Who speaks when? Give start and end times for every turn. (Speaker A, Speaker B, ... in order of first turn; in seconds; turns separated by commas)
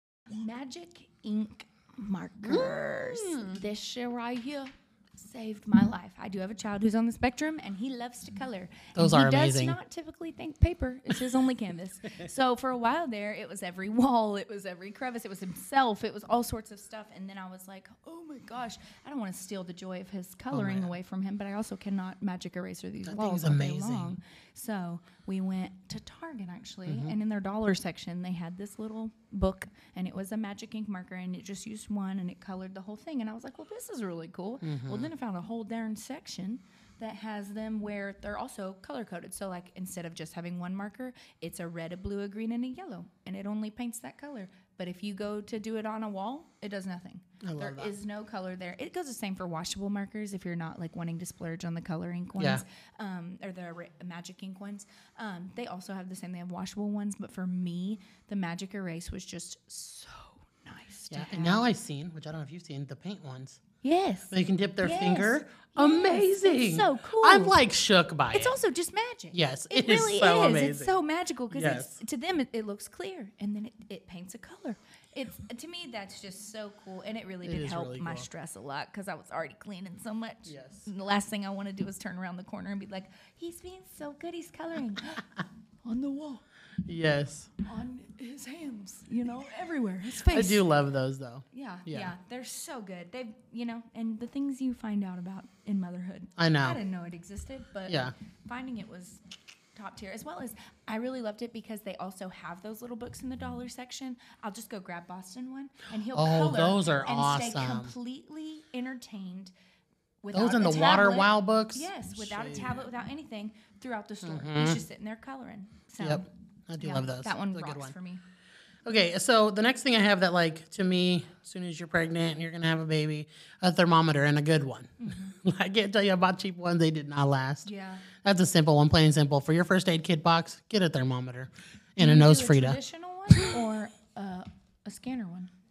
Speaker A: 0.3-61.6, Speaker B: 2.4-3.6, Speaker B: 8.9-9.8, Speaker B: 20.5-20.9, Speaker B: 23.0-24.1, Speaker B: 26.9-27.1, Speaker B: 34.6-35.1, Speaker B: 47.4-47.9, Speaker B: 52.4-52.6, Speaker B: 61.1-63.6, Speaker A: 63.8-67.6, Speaker B: 64.3-68.5, Speaker A: 68.3-85.2, Speaker B: 69.3-71.0, Speaker B: 71.5-72.0, Speaker B: 77.4-78.3, Speaker B: 80.5-80.8, Speaker A: 85.8-86.4, Speaker B: 86.8-87.5, Speaker A: 87.6-90.7, Speaker B: 90.3-92.1, Speaker A: 91.5-99.2, Speaker B: 96.4-96.8, Speaker B: 97.9-98.1, Speaker A: 99.7-109.5, Speaker B: 106.1-107.9, Speaker A: 110.2-116.3, Speaker B: 110.3-112.9, Speaker B: 114.2-114.8, Speaker B: 116.0-117.9, Speaker A: 116.8-118.2, Speaker B: 118.8-132.8, Speaker A: 125.0-125.3, Speaker A: 127.6-128.0, Speaker A: 132.0-135.5